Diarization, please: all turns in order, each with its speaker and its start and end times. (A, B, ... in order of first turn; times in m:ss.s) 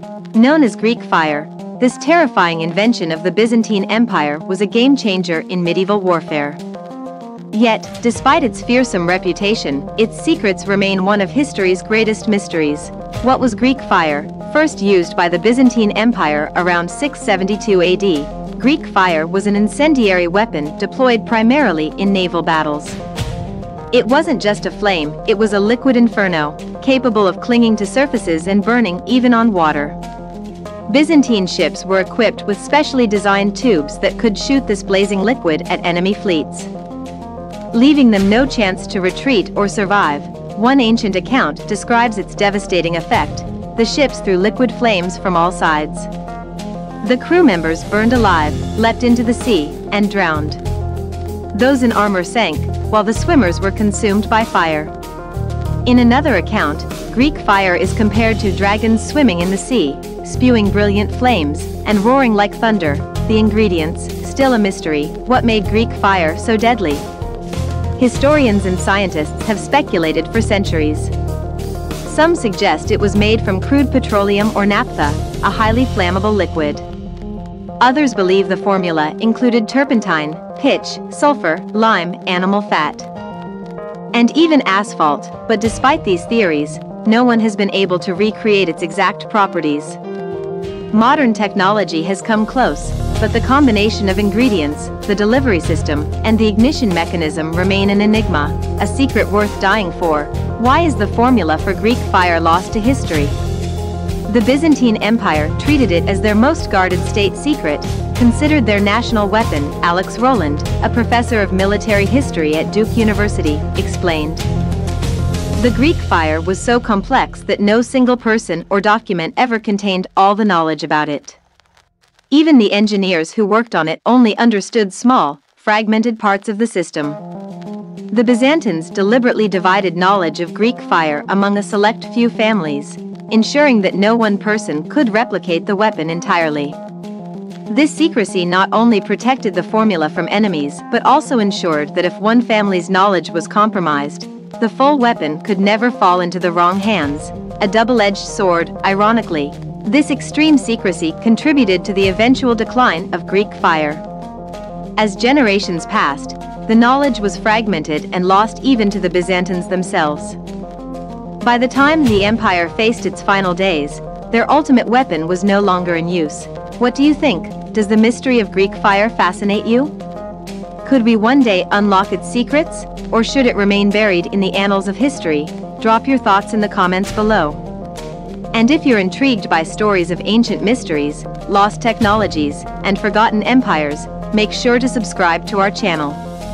0:00.3-0:06.6 A
0:07.5-0:23.0 A
0:23.9-0:30.0 A
0:30.9-0:36.7 A
0:37.7-0:46.1 A
0:47.0-0:50.6 A
0:51.5-0:54.9 A
0:55.8-1:07.0 A
1:08.0-1:11.1 A
1:12.0-1:16.8 A
1:17.8-1:23.1 A
1:24.1-1:30.0 A
1:30.9-1:43.4 A
1:44.3-1:54.4 A
1:55.6-2:01.4 A
2:02.3-2:07.2 A
2:08.1-2:16.8 A
2:17.7-2:34.0 A
2:35.0-2:40.4 A
2:41.4-2:49.9 A
2:50.8-2:57.6 A
2:58.5-3:06.2 A